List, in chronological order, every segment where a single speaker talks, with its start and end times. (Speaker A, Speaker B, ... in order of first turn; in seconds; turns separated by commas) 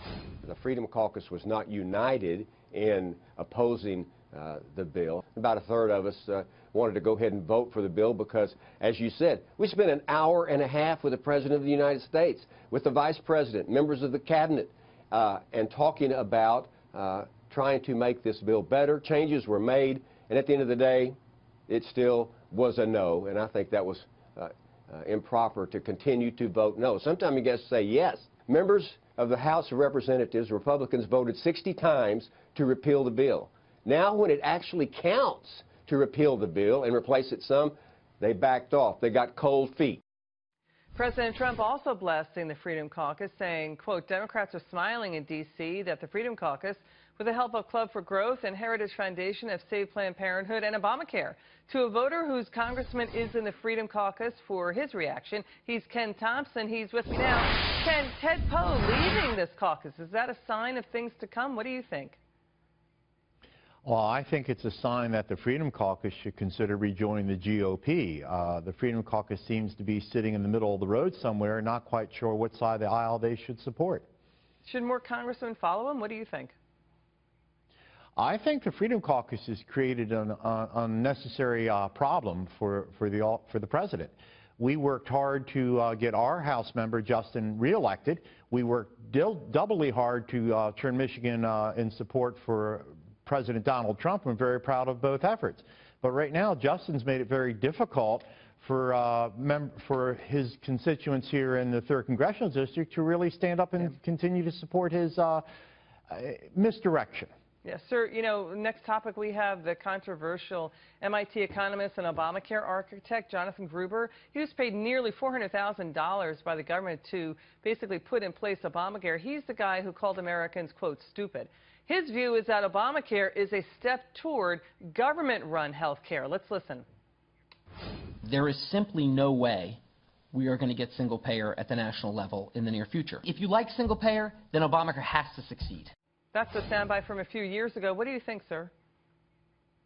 Speaker A: 0.4-21.2, Speaker A: 21.7-40.0, Speaker B: 41.0-62.2, Speaker C: 63.8-74.0, Speaker B: 74.6-76.5, Speaker C: 78.2-105.4, Speaker C: 106.1-107.3, Speaker B: 107.6-126.8, Speaker D: 128.2-135.9, Speaker B: 136.3-138.7